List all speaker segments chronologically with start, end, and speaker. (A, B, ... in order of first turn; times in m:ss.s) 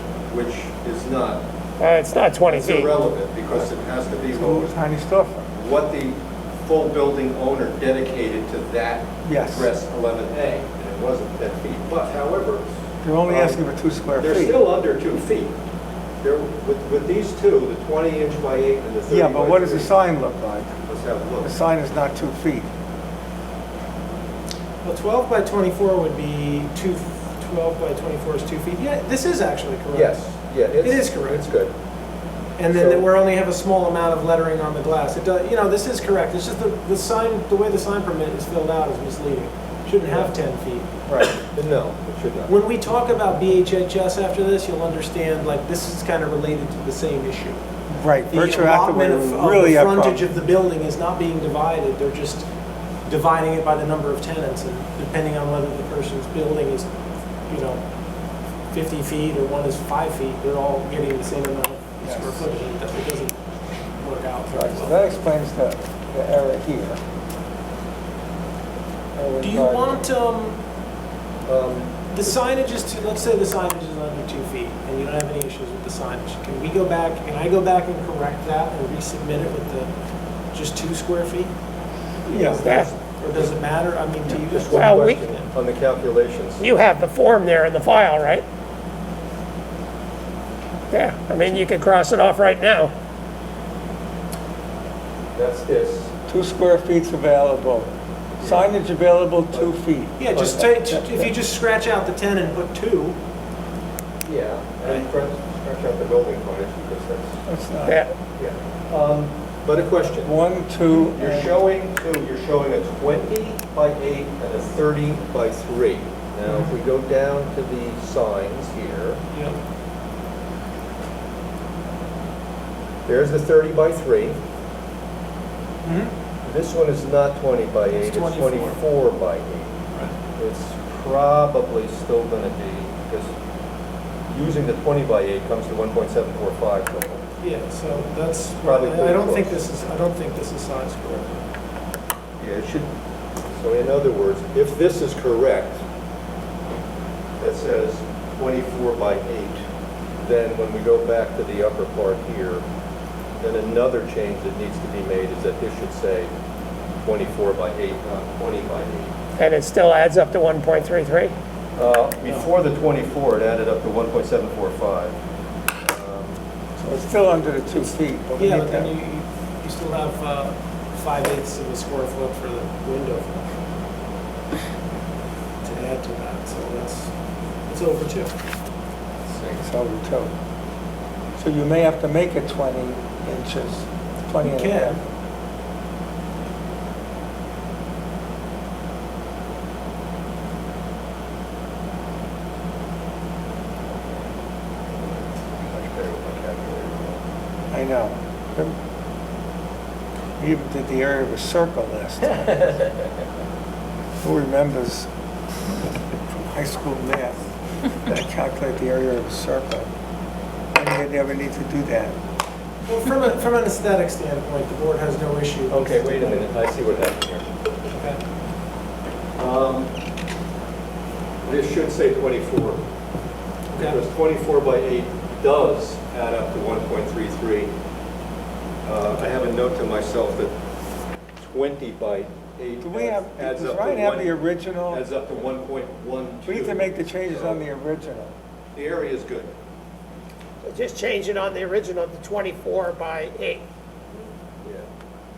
0:00.3-0:01.4 A
0:01.8-0:02.9 B
0:02.5-0:04.7 A
0:04.3-0:05.5 C
0:05.5-0:12.7 A
0:09.3-0:09.7 C
0:13.0-0:14.6 C
0:13.3-0:13.6 A
0:14.2-0:15.6 A
0:16.2-0:19.9 A
0:19.1-0:20.7 C
0:20.9-0:21.5 A
0:21.4-0:22.7 C
0:24.8-0:30.2 D
0:29.9-0:31.7 A
0:30.8-0:31.4 D
0:32.6-0:40.9 D
0:32.7-0:33.0 A
0:41.1-0:42.5 A
0:42.5-0:47.6 D
0:47.9-0:50.2 C
0:48.3-0:52.5 D
0:53.1-0:56.9 D
0:57.5-0:57.8 D
0:58.7-1:03.4 D
1:02.0-1:02.4 C
1:04.0-1:05.1 D
1:04.5-1:07.0 C
1:09.1-1:10.0 C
1:09.4-1:10.6 D
1:11.5-1:12.9 A
1:12.1-1:19.9 D
1:20.5-1:21.5 D
1:22.3-1:25.5 D
1:22.3-1:22.7 C
1:22.6-1:22.9 B
1:24.5-1:26.7 A
1:24.7-1:25.2 B
1:26.6-1:28.4 B
1:30.9-1:32.9 B
1:35.4-1:36.1 A
1:36.3-1:37.9 C
1:38.4-1:38.7 A
1:38.4-1:41.3 C
1:40.2-1:43.2 D
1:44.2-1:47.4 A
1:47.5-1:48.1 C
1:47.9-1:48.1 B
1:48.4-1:50.3 A
1:50.2-1:51.6 C
1:51.0-1:59.2 A
1:56.5-1:56.7 D
1:59.3-1:59.6 D
2:03.1-2:04.4 A
2:05.8-2:06.1 D
2:06.4-2:09.8 A
2:08.0-2:08.8 D
2:10.4-2:13.3 A
2:14.3-2:17.2 A
2:17.4-2:21.4 D
2:18.6-2:19.6 A
2:22.4-2:22.9 A
2:23.5-2:25.8 A
2:27.4-2:29.6 A
2:30.2-2:32.6 A
2:33.4-2:36.3 A
2:37.0-2:39.1 A
2:39.4-2:41.4 B
2:41.8-2:45.2 A
2:42.2-2:42.5 D
2:45.8-2:46.4 A
2:46.8-2:48.9 C
2:48.4-2:53.6 D
2:55.6-2:57.1 D
2:57.7-2:58.3 D
2:59.5-3:00.3 C
3:01.4-3:05.0 C
3:04.4-3:05.0 D
3:13.9-3:14.2 A
3:14.9-3:17.2 A
3:17.7-3:18.8 C
3:20.4-3:22.8 C
3:24.2-3:25.1 C
3:26.1-3:29.9 C
3:30.7-3:32.2 C
3:32.9-3:36.5 D
3:35.7-3:37.5 A
3:37.9-3:38.2 D
3:39.4-3:39.9 A
3:41.4-3:42.8 A
3:43.8-3:47.7 A
3:48.8-3:50.5 A
3:51.4-3:54.4 A
3:52.8-3:55.0 C
3:54.9-3:57.6 A
3:56.5-3:58.3 C
3:58.8-3:59.5 A
4:00.6-4:03.6 B